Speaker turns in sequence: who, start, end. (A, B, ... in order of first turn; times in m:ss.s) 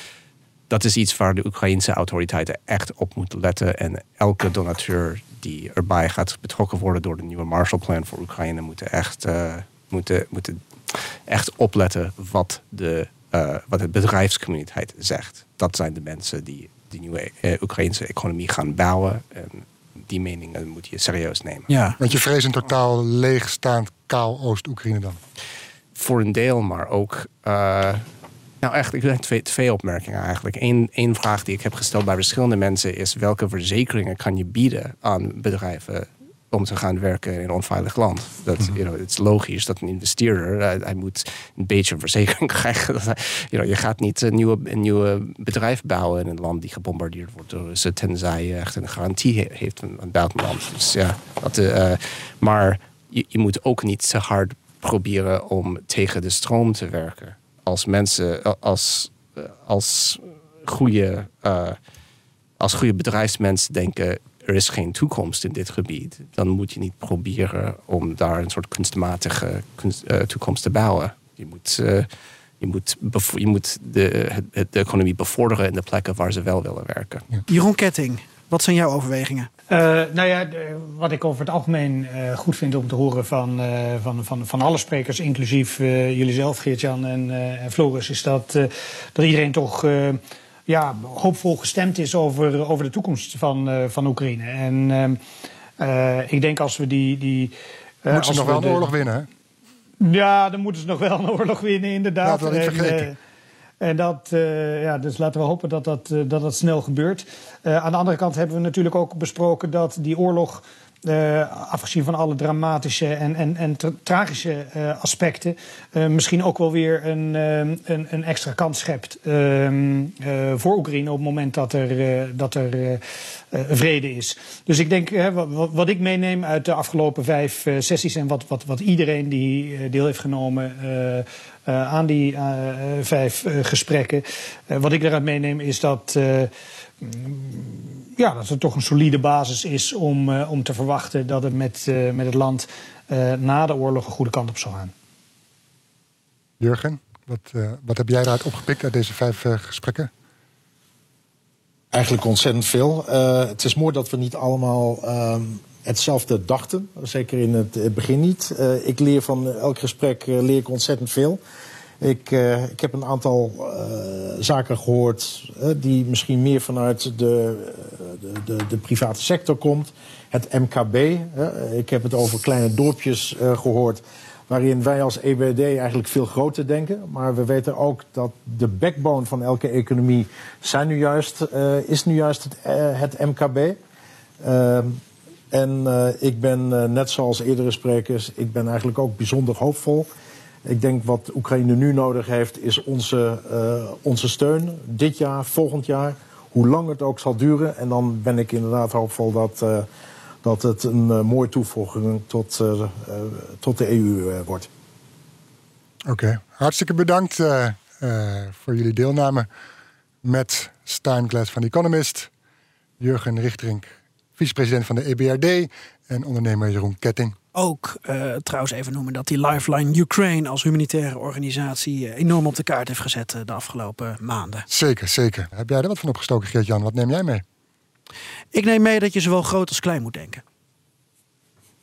0:00.7-0:21.7 A
0:21.7-0:22.0 B
0:22.0-0:25.2 C
0:25.9-0:28.1 A
0:28.6-1:01.8 A
1:02.6-1:17.3 A
1:17.5-1:19.5 B
1:19.7-1:35.2 D
1:35.8-1:38.9 D
1:38.1-1:39.3 C
1:40.0-1:43.2 D
1:42.2-1:43.1 C
1:43.8-2:16.5 D
2:17.0-2:24.9 D
2:26.6-2:30.1 C
2:31.9-2:41.4 E
2:42.0-3:03.8 E
3:04.4-3:10.1 E
3:10.6-3:19.9 E
3:20.4-3:24.7 E
3:26.1-3:29.5 C
3:30.2-3:32.3 C
3:33.0-3:37.4 C
3:37.5-3:44.7 B
3:44.7-3:47.4 C
3:48.5-3:50.4 B